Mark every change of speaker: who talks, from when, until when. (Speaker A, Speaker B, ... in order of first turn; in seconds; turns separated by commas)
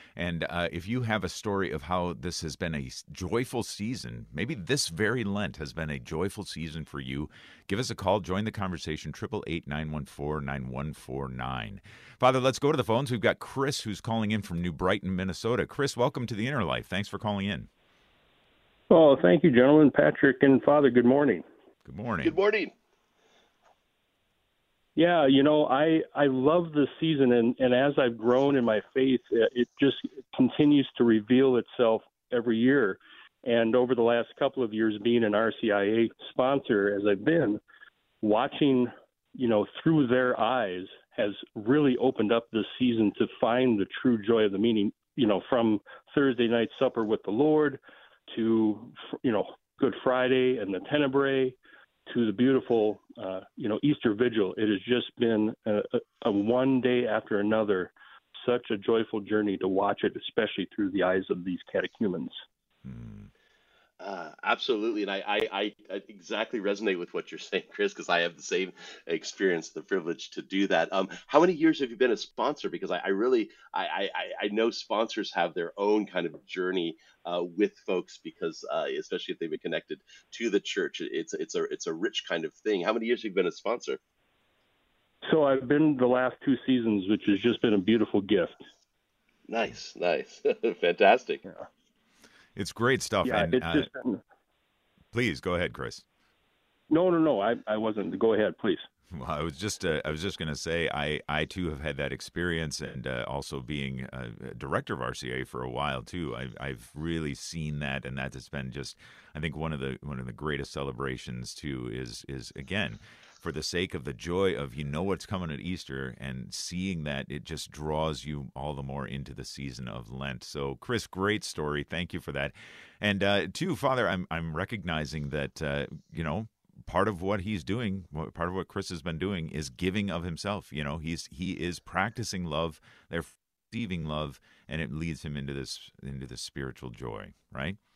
Speaker A: 0.1-17.7, Speaker B: 18.9-21.4, Speaker A: 21.8-22.4, Speaker C: 22.2-22.7, Speaker B: 24.9-37.6, Speaker B: 38.2-51.6, Speaker B: 52.1-62.3, Speaker A: 62.8-63.3, Speaker C: 64.0-84.0, Speaker B: 85.2-88.5, Speaker C: 89.5-91.4, Speaker A: 92.5-93.9, Speaker B: 93.2-94.2, Speaker A: 95.1-96.0, Speaker B: 96.9-98.8, Speaker A: 99.1-137.8